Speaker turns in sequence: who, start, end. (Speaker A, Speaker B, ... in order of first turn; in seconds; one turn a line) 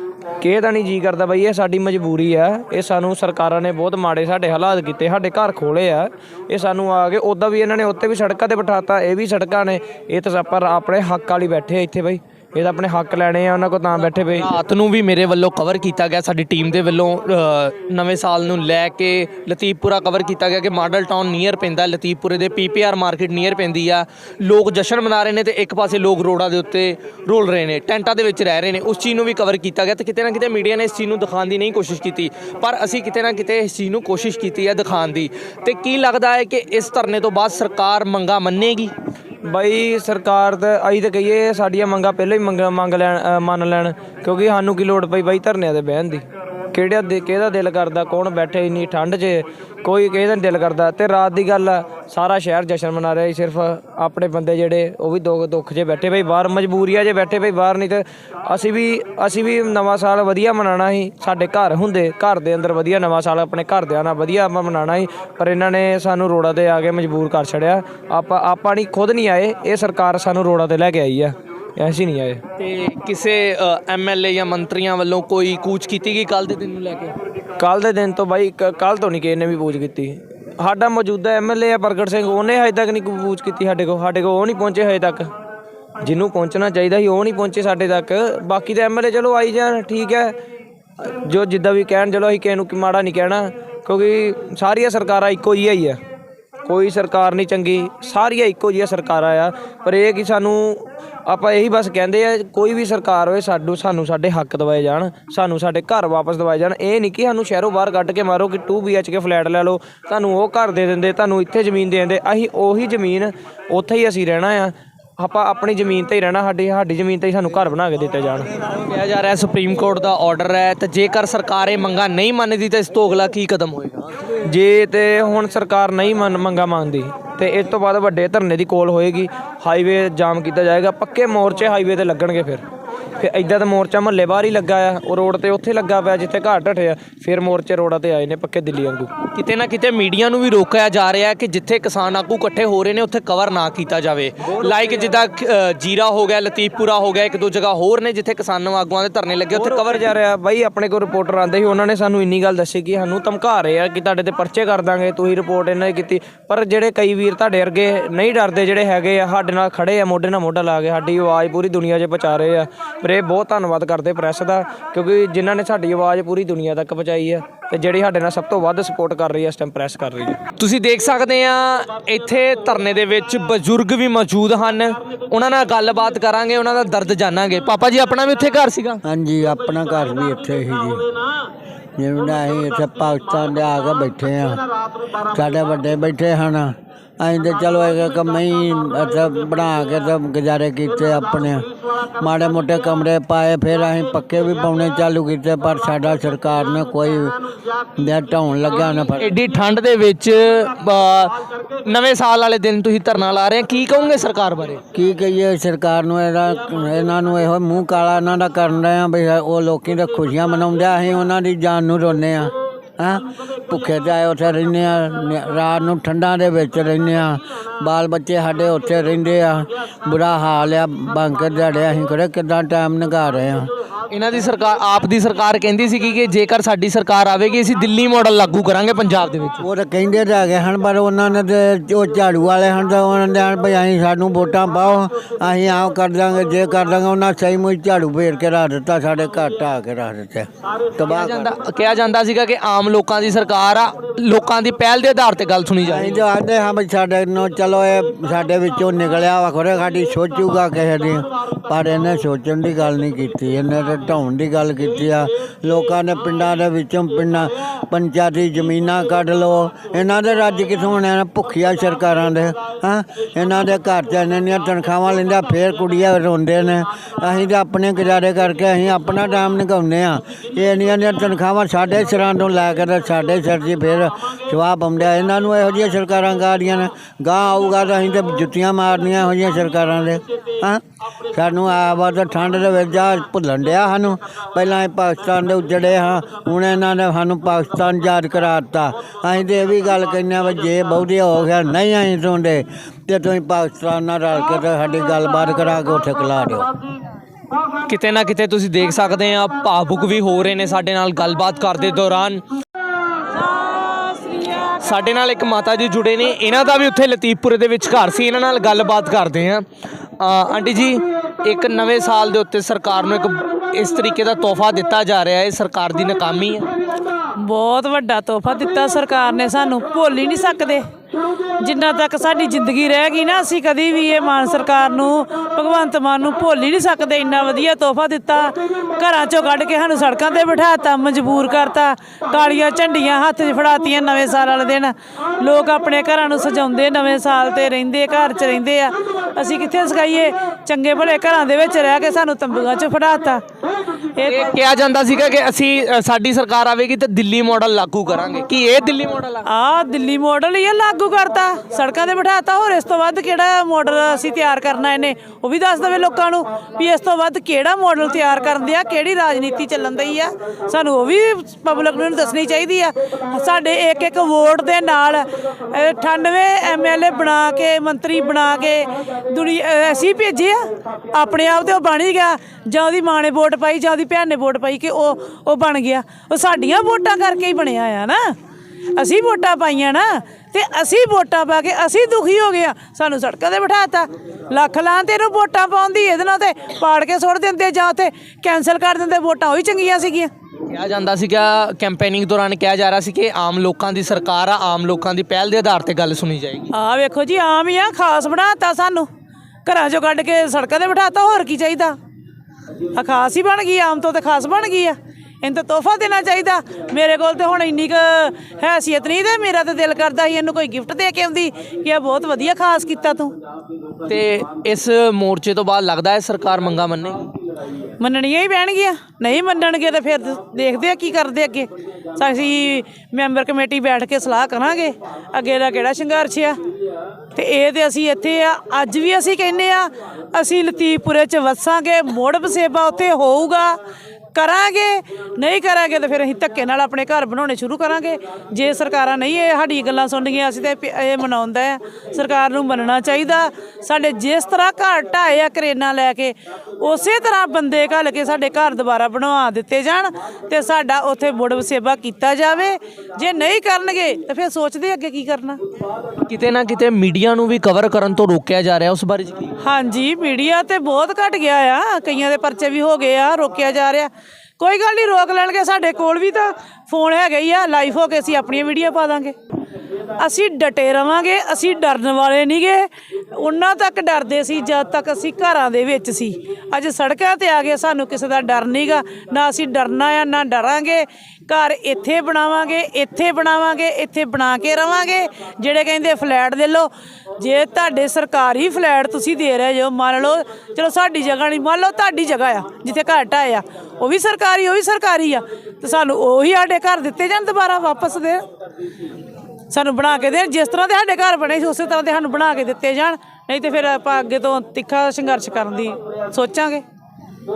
Speaker A: 0.4-14.5
Speaker B: 14.2-38.9
Speaker A: 39.8-64.5
Speaker A: 65.0-66.2
Speaker A: 66.8-72.4
Speaker B: 72.6-77.2
Speaker A: 77.6-85.3
Speaker A: 86.1-90.4
Speaker A: 91.0-96.0
Speaker A: 96.7-114.7
Speaker A: 117.5-118.5
Speaker B: 118.6-124.1
Speaker A: 124.5-132.6
Speaker A: 133.2-134.2
Speaker B: 133.8-135.1
Speaker A: 134.9-139.3
Speaker B: 139.3-150.1
Speaker A: 149.5-160.9
Speaker B: 161.0-161.7
Speaker A: 161.8-168.7
Speaker B: 169.3-179.0
Speaker C: 179.1-181.0
Speaker C: 182.0-184.6
Speaker C: 185.3-191.6
Speaker C: 192.2-197.3
Speaker C: 198.0-199.3
Speaker B: 199.2-204.8
Speaker C: 204.9-223.7
Speaker B: 224.1-229.6
Speaker C: 229.6-241.5
Speaker B: 241.1-246.2
Speaker C: 245.9-280.8
Speaker C: 281.3-296.7
Speaker B: 297.9-302.4
Speaker B: 304.1-309.6
Speaker B: 310.2-316.7
Speaker D: 317.4-320.8
Speaker D: 321.6-343.4
Speaker D: 344.2-344.5
Speaker B: 344.3-349.4
Speaker D: 349.5-378.3
Speaker D: 378.9-390.3
Speaker B: 390.7-396.7
Speaker D: 396.7-399.1
Speaker D: 399.6-402.0
Speaker D: 402.9-413.4
Speaker B: 414.1-417.3
Speaker D: 418.0-426.6
Speaker D: 427.3-433.8
Speaker D: 434.3-455.6
Speaker B: 456.3-459.5
Speaker D: 459.6-469.4
Speaker D: 470.2-498.4
Speaker D: 499.7-506.8